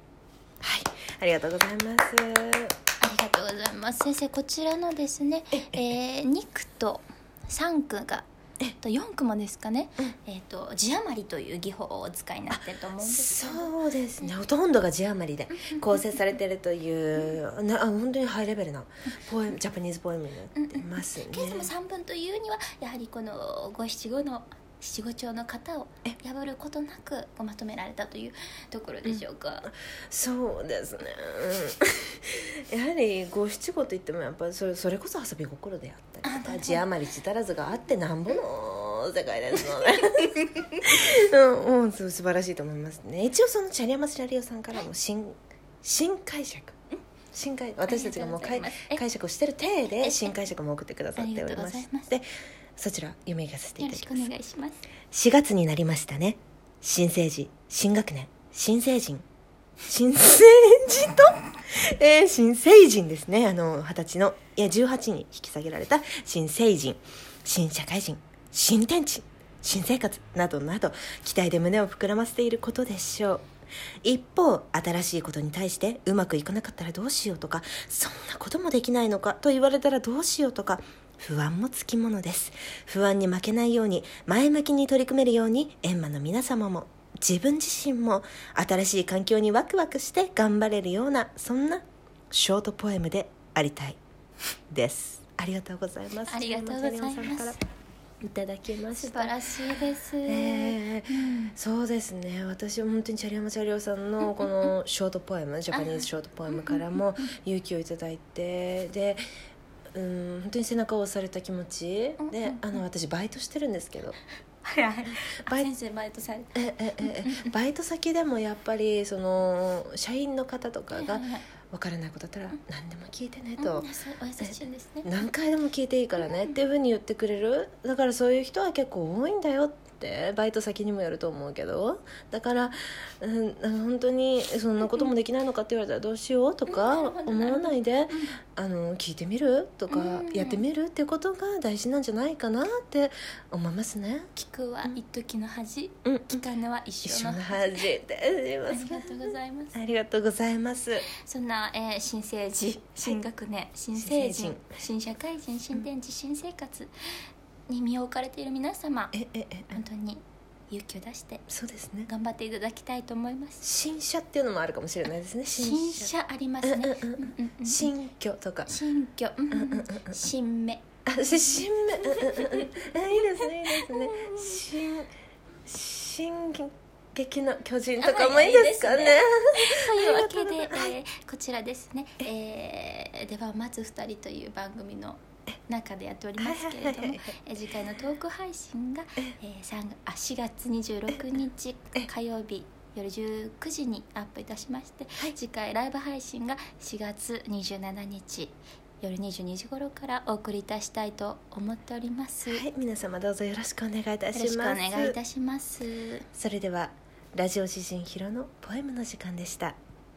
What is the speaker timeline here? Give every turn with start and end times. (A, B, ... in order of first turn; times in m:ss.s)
0:00.6-0:02.8 A
0:03.0-0:14.3 B
0:05.6-0:05.8 A
0:12.5-0:21.7 A
0:15.6-0:16.0 B
0:20.6-0:29.7 B
0:30.1-0:46.8 A
0:36.2-0:36.9 B
0:47.3-0:54.3 A
0:47.9-0:49.0 B
0:49.9-0:50.4 B
0:51.2-0:52.1 B
0:53.8-0:54.9 B
0:55.1-0:59.2 A
0:59.9-1:13.4 A
1:14.0-1:34.0 A
1:34.7-1:37.6 A
1:36.3-1:37.6 B
1:38.2-1:39.4 A
1:38.9-1:41.6 B
1:40.2-1:49.2 A
1:44.2-1:44.7 B
1:45.7-1:47.0 B
1:49.9-1:54.2 A
1:52.2-1:52.8 B
1:54.6-1:57.5 B
1:55.1-1:55.7 A
1:56.6-2:03.9 A
2:00.9-2:01.5 B
2:03.6-2:05.2 B
2:04.4-2:24.3 A
2:06.2-2:06.6 B
2:16.7-2:18.4 B
2:19.9-2:20.6 B
2:24.4-2:27.8 B
2:26.0-2:26.4 A
2:27.0-2:31.1 A
2:28.7-2:29.8 B
2:31.1-2:36.9 B
2:34.0-2:34.6 A
2:37.7-2:39.1 B
2:39.1-2:39.8 A
2:39.7-2:41.5 B
2:41.5-2:42.1 A
2:42.1-2:43.6 B
2:43.6-2:48.8 A
2:45.5-2:47.9 B
2:48.7-2:54.6 B
2:49.5-2:50.2 A
2:51.1-2:55.1 A
2:55.7-3:00.9 A
2:58.0-3:22.6 B
3:06.4-3:07.4 A
3:22.4-3:25.2 A
3:24.3-3:26.3 B
3:26.3-3:29.8 A